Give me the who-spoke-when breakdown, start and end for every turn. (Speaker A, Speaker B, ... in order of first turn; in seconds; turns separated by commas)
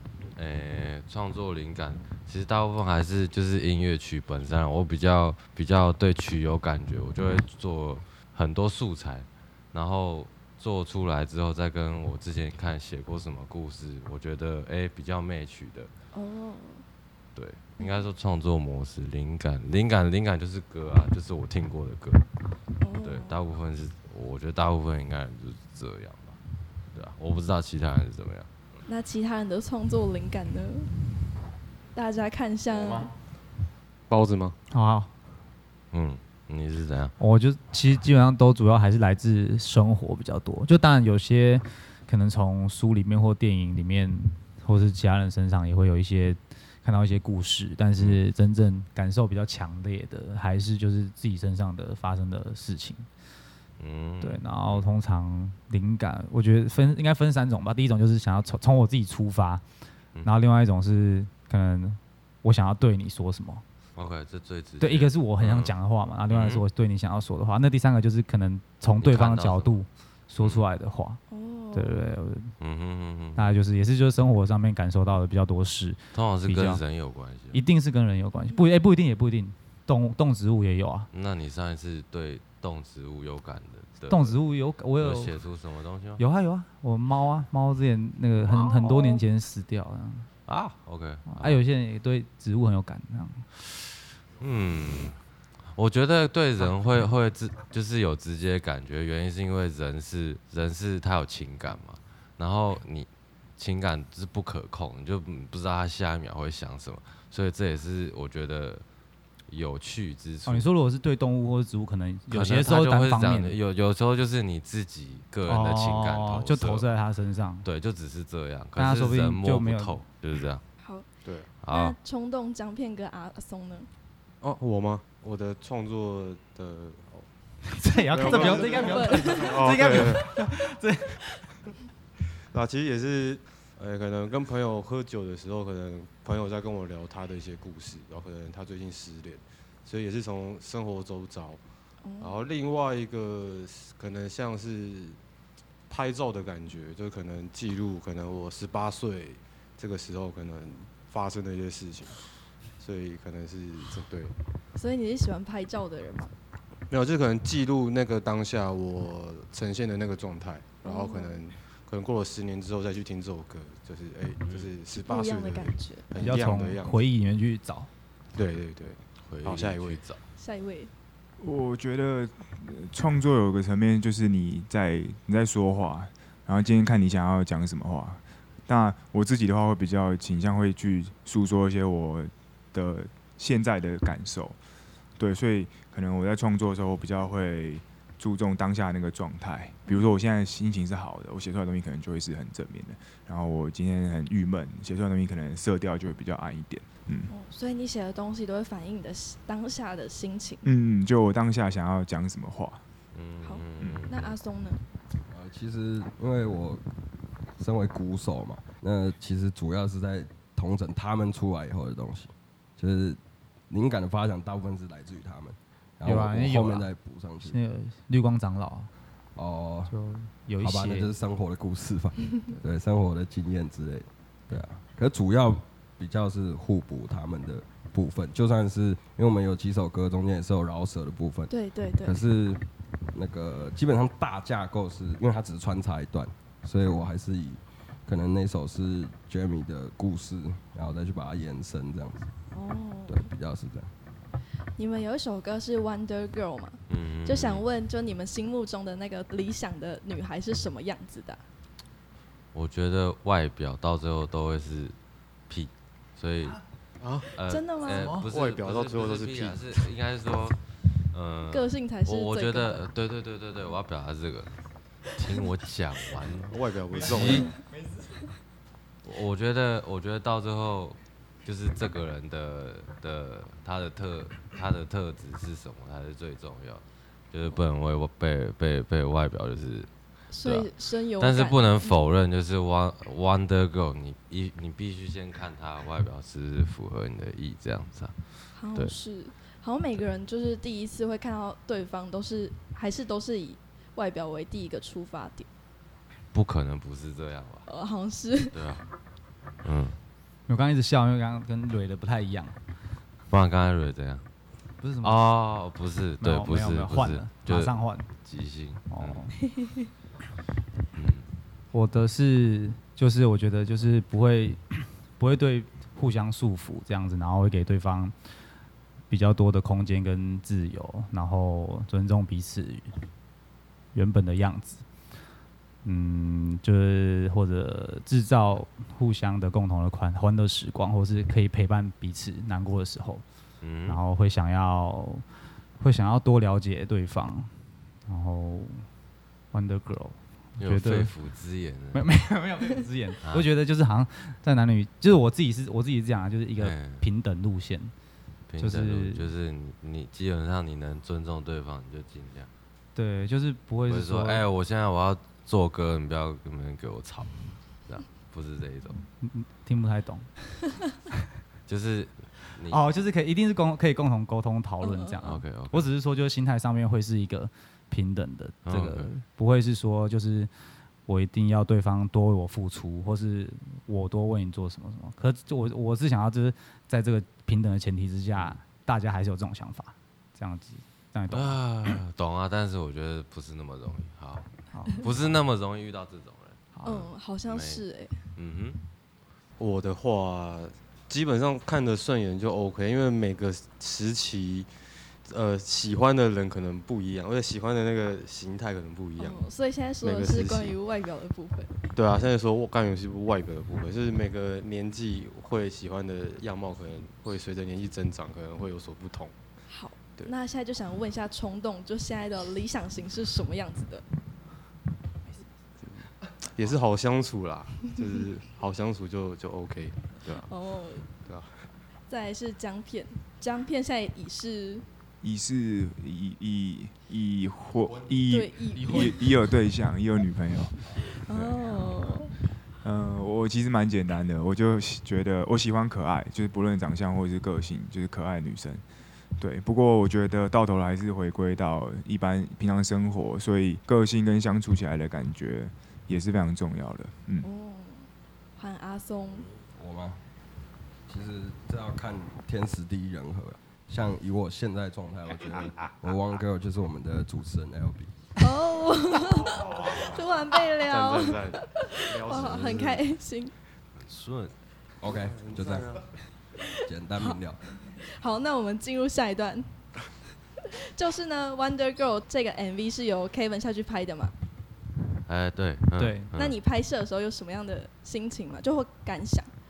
Speaker A: 0.3-15.9, Speaker B: 16.1-16.8, Speaker A: 17.4-22.2, Speaker B: 17.8-18.1, Speaker B: 22.8-23.4, Speaker A: 23.0-26.4, Speaker A: 26.9-28.5, Speaker B: 28.9-30.9, Speaker B: 31.9-33.1, Speaker C: 34.1-34.5, Speaker D: 34.7-35.1, Speaker A: 35.9-37.1, Speaker D: 37.2-53.1, Speaker A: 48.0-48.2, Speaker A: 53.8-54.9, Speaker D: 54.2-59.6, Speaker D: 60.2-63.6, Speaker A: 64.0-65.7, Speaker D: 64.8-71.2, Speaker A: 66.3-66.6, Speaker A: 69.0-69.7, Speaker A: 70.4-70.7, Speaker B: 71.3-72.1, Speaker D: 71.7-72.5, Speaker A: 72.6-73.5, Speaker D: 73.3-76.8, Speaker A: 76.1-77.6, Speaker D: 77.5-81.1, Speaker A: 81.1-84.3, Speaker D: 84.1-85.3, Speaker A: 85.0-86.2, Speaker D: 86.2-90.3, Speaker A: 88.5-89.2, Speaker A: 90.5-91.6, Speaker D: 91.3-93.5, Speaker A: 94.4-95.2, Speaker A: 95.7-108.8, Speaker A: 109.5-110.7, Speaker D: 110.5-113.5, Speaker A: 112.3-116.9, Speaker D: 115.5-117.7, Speaker A: 117.6-120.6, Speaker D: 118.8-120.0, Speaker B: 120.8-121.1, Speaker C: 121.2-121.5, Speaker A: 121.6-122.0, Speaker B: 121.7-123.9, Speaker C: 124.4-127.3, Speaker D: 127.7-131.5, Speaker C: 128.1-130.4, Speaker B: 128.3-129.6, Speaker C: 132.5-141.6, Speaker B: 142.0-142.4, Speaker C: 142.2-145.2, Speaker C: 145.9-152.2, Speaker C: 152.8-154.3, Speaker B: 154.7-156.3, Speaker C: 156.9-167.0, Speaker B: 160.8-161.4, Speaker A: 164.4-164.7, Speaker B: 164.9-166.2, Speaker D: 166.2-167.9, Speaker C: 168.3-170.0, Speaker A: 169.2-170.2, Speaker B: 170.4-170.9, Speaker E: 171.4-184.6, Speaker E: 185.2-197.3, Speaker B: 189.9-190.1, Speaker B: 197.3-200.7, Speaker E: 200.6-202.8, Speaker A: 203.1-204.3, Speaker B: 203.4-204.8, Speaker F: 205.3-206.8, Speaker F: 207.6-217.6, Speaker D: 216.0-216.9, Speaker D: 217.4-218.9, Speaker F: 219.3-219.9, Speaker D: 219.9-221.1, Speaker F: 220.6-231.5, Speaker B: 231.5-232.2, Speaker F: 232.0-242.3, Speaker B: 242.5-243.3, Speaker F: 243.1-243.9, Speaker B: 244.8-251.4, Speaker A: 246.9-247.6, Speaker A: 252.5-254.9, Speaker A: 255.5-256.6, Speaker C: 257.0-257.3, Speaker A: 257.4-260.6, Speaker B: 257.5-258.2, Speaker C: 258.2-259.7, Speaker A: 261.1-264.5, Speaker B: 261.5-262.9, Speaker A: 265.1-267.5, Speaker C: 266.4-267.6, Speaker A: 269.0-279.9, Speaker B: 280.3-282.1, Speaker A: 280.4-288.2, Speaker B: 288.5-295.5, Speaker A: 296.3-297.7, Speaker B: 297.7-298.7, Speaker A: 298.5-298.9, Speaker A: 299.6-300.0, Speaker D: 300.5-302.6, Speaker A: 303.3-304.2, Speaker D: 304.8-305.2, Speaker A: 305.0-309.3, Speaker D: 306.2-308.1, Speaker D: 308.9-309.4, Speaker A: 310.9-311.3, Speaker D: 311.7-318.1, Speaker D: 319.1-322.9, Speaker D: 323.9-324.9, Speaker D: 325.8-333.2, Speaker A: 333.6-334.0, Speaker D: 333.9-335.2, Speaker D: 335.8-338.9, Speaker D: 339.5-341.1, Speaker A: 340.6-342.1, Speaker D: 341.9-347.9, Speaker A: 346.6-347.1, Speaker A: 348.5-352.5, Speaker D: 348.6-349.2, Speaker D: 352.9-354.4, Speaker A: 353.9-357.3, Speaker A: 357.9-359.0, Speaker D: 359.2-360.3, Speaker A: 361.7-362.8, Speaker D: 362.7-370.5, Speaker B: 364.8-365.2, Speaker A: 365.2-365.9, Speaker A: 368.6-369.1, Speaker D: 371.1-381.6, Speaker A: 381.3-386.7, Speaker D: 384.7-385.1, Speaker D: 386.7-387.1, Speaker B: 386.9-388.2, Speaker A: 387.4-387.8, Speaker A: 388.4-388.8, Speaker C: 389.6-394.7, Speaker C: 395.2-399.4, Speaker B: 399.2-401.8, Speaker C: 400.0-400.8, Speaker C: 401.9-409.3, Speaker B: 409.7-414.1, Speaker C: 416.4-420.5, Speaker B: 420.4-421.1, Speaker C: 421.2-421.6, Speaker B: 422.1-424.9, Speaker E: 425.2-432.0, Speaker B: 428.3-429.3, Speaker B: 431.0-432.3, Speaker E: 432.8-438.8, Speaker E: 439.4-447.5, Speaker B: 447.4-449.5, Speaker F: 449.7-450.2, Speaker F: 451.1-458.1, Speaker B: 458.4-463.5, Speaker C: 459.5-460.2, Speaker C: 460.8-463.0, Speaker A: 463.9-464.5, Speaker F: 465.0-466.0, Speaker C: 465.1-466.1, Speaker F: 466.8-467.6, Speaker B: 468.1-469.7, Speaker B: 470.6-474.3, Speaker A: 475.3-476.6, Speaker D: 476.0-476.3, Speaker B: 476.4-479.5